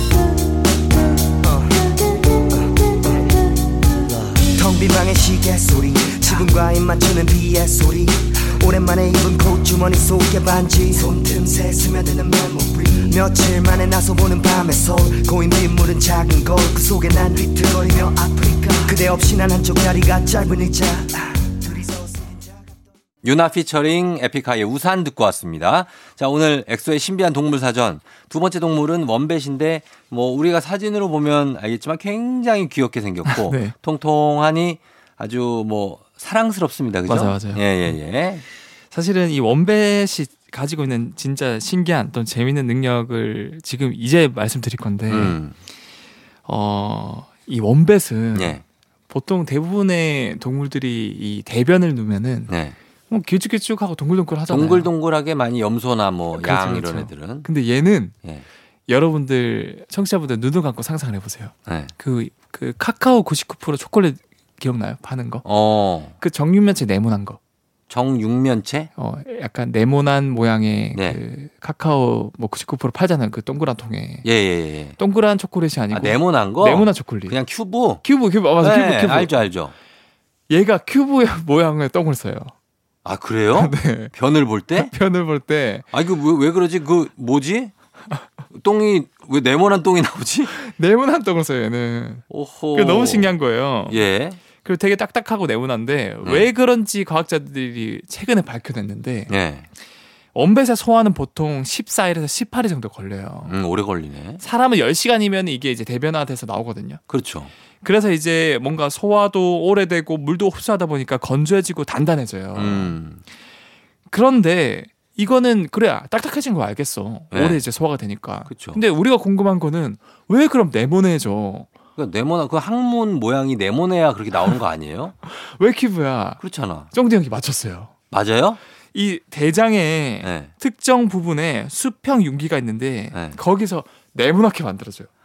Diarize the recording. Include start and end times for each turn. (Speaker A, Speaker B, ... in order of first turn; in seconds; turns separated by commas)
Speaker A: 4.4-22.6, Speaker B: 23.2-38.4, Speaker C: 33.3-33.7, Speaker C: 37.1-37.6, Speaker C: 38.9-45.4, Speaker B: 45.1-45.5, Speaker C: 46.5-52.5, Speaker B: 48.3-48.6, Speaker B: 52.5-52.8, Speaker C: 53.1-54.9, Speaker B: 54.5-57.5, Speaker C: 56.4-58.1, Speaker C: 58.9-65.5, Speaker B: 61.7-61.9, Speaker B: 65.4-66.2, Speaker C: 66.2-67.4, Speaker B: 67.9-68.9, Speaker C: 69.0-74.3, Speaker B: 70.9-71.2, Speaker B: 74.2-75.0, Speaker C: 75.0-77.4, Speaker B: 75.9-78.0, Speaker C: 78.0-79.3, Speaker B: 78.6-79.7, Speaker C: 80.5-82.5, Speaker B: 83.0-84.9, Speaker C: 83.5-84.1, Speaker C: 84.8-85.9, Speaker B: 85.9-87.7, Speaker B: 88.5-90.5, Speaker C: 90.6-94.0, Speaker B: 92.3-93.3, Speaker B: 93.9-94.4, Speaker C: 94.6-99.3, Speaker B: 96.2-96.5, Speaker B: 99.3-99.7, Speaker C: 100.3-103.5, Speaker B: 103.5-104.4, Speaker C: 104.4-107.0, Speaker B: 107.1-107.5, Speaker C: 107.8-113.0, Speaker B: 112.5-113.2, Speaker C: 114.1-121.7, Speaker B: 117.3-117.6, Speaker B: 118.5-118.8, Speaker B: 122.0-125.2, Speaker C: 125.3-126.4, Speaker B: 126.4-126.9, Speaker C: 126.9-127.9, Speaker B: 128.1-128.6, Speaker C: 128.9-135.1, Speaker B: 130.2-130.5, Speaker B: 133.1-133.4